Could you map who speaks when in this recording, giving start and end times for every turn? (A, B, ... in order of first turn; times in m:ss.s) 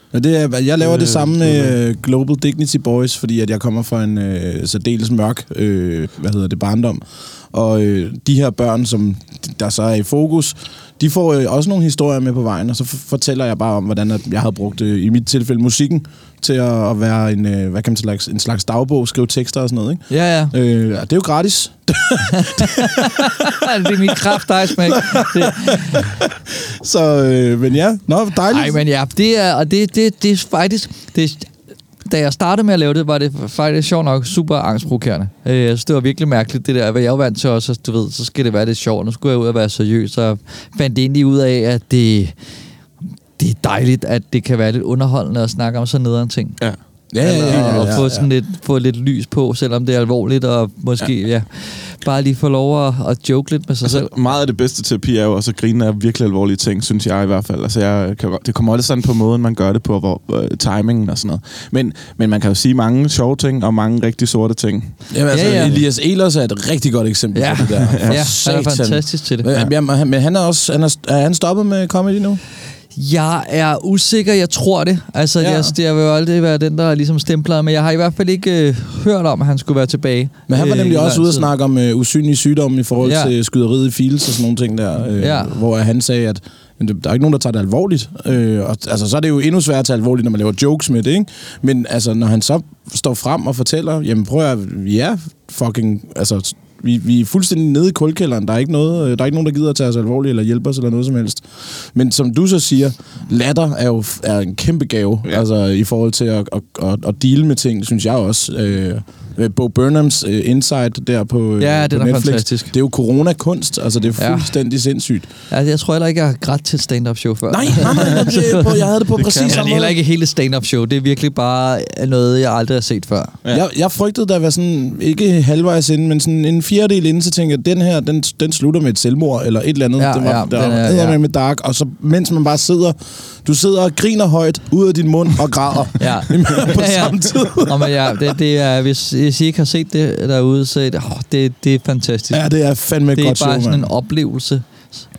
0:00.1-0:23.2 A
0:00.8-0:01.8 B
0:20.1-0:20.5 C
0:22.3-0:26.1 C
0:24.1-0:28.8 A
0:28.5-0:31.5 C
0:32.0-0:42.4 C
0:43.4-0:46.6 C
0:47.1-0:48.3 A
0:47.2-0:54.1 C
0:47.5-0:47.9 B
0:53.8-1:05.8 B
1:05.1-1:12.4 A
1:05.3-1:05.8 C
1:07.4-1:09.5 C
1:07.6-1:08.3 B
1:13.0-1:21.5 C
1:15.4-1:15.7 A
1:20.5-1:55.3 A
1:23.0-1:23.3 C
1:25.2-1:25.6 C
1:51.6-1:52.7 C
1:54.2-1:54.5 C
1:55.5-1:58.8 C
1:57.5-2:00.0 A
1:59.2-1:59.6 B
1:59.4-2:03.4 C
2:03.5-2:18.4 A
2:10.0-2:11.2 C
2:16.0-2:22.5 C
2:22.3-2:23.9 A
2:23.2-2:25.0 C